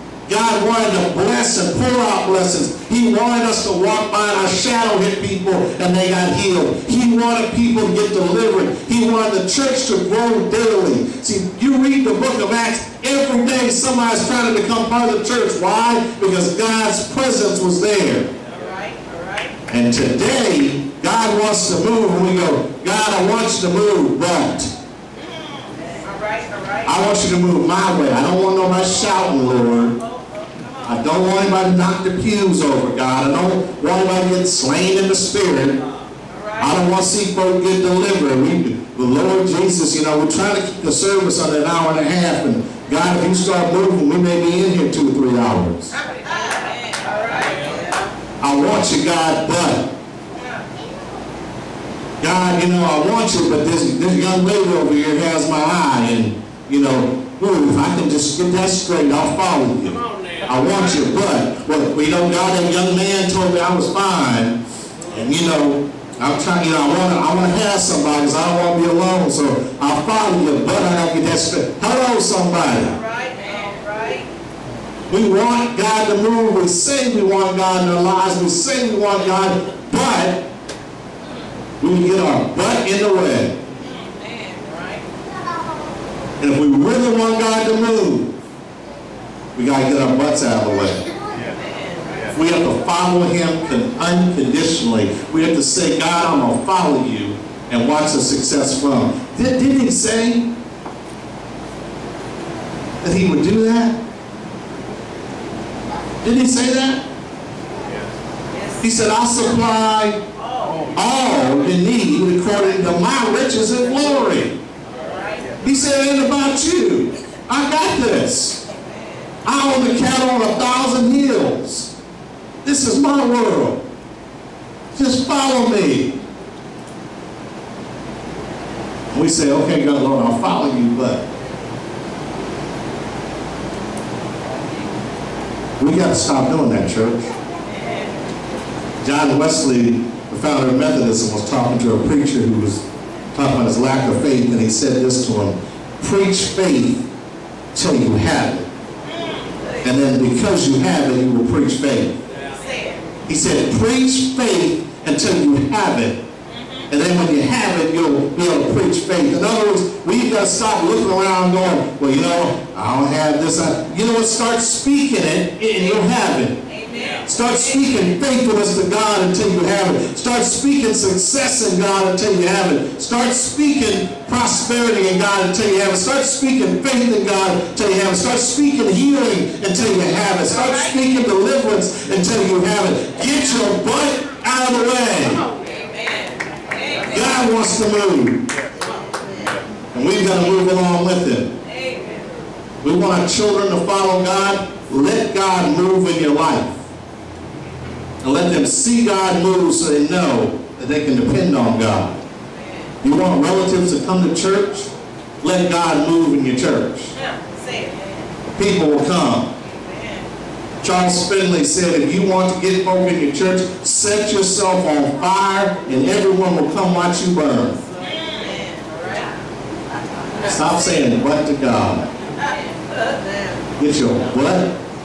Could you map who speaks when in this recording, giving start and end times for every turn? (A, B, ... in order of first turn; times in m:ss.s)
0:00.3-0:18.3 A
0:18.6-0:19.5 B
0:19.7-0:24.7 A
0:26.0-0:26.8 B
0:26.8-0:30.0 A
0:30.3-0:30.7 B
0:30.8-0:35.8 A
0:36.6-0:45.9 A
0:46.3-0:47.9 B
0:48.4-0:49.9 A
0:52.2-1:13.0 A
1:12.9-1:14.3 B
1:15.1-1:20.5 A
1:21.8-1:23.6 A
1:23.8-1:25.0 B
1:26.4-1:28.3 A
1:29.6-1:31.1 A
1:32.3-1:40.5 A
1:43.0-1:44.0 A
1:46.2-1:47.0 A
1:48.8-1:50.2 A
1:50.5-1:50.8 B
1:50.9-1:54.6 A
1:55.1-1:55.4 B
1:55.6-1:58.6 A
1:59.4-2:01.9 A
2:02.6-2:03.8 A
2:04.9-2:06.2 A
2:09.1-2:11.2 A
2:15.8-2:17.3 A
2:19.0-2:22.8 A
2:23.4-2:27.1 A
2:27.7-2:28.7 A
2:29.8-2:32.2 A
2:32.6-2:33.0 B
2:33.3-2:36.2 A
2:36.9-2:46.6 A
2:46.7-2:47.6 B
2:47.2-3:05.5 A
3:05.6-3:07.1 B
3:07.1-3:08.5 A
3:09.9-3:11.5 A
3:12.8-3:16.8 A
3:18.2-3:22.2 A
3:23.0-3:24.9 A
3:25.4-3:27.1 A
3:27.2-3:28.1 B
3:28.5-3:29.5 A
3:29.8-3:30.2 B
3:30.8-3:37.8 A
3:38.0-3:39.3 B
3:40.4-3:42.1 A
3:43.8-3:44.8 A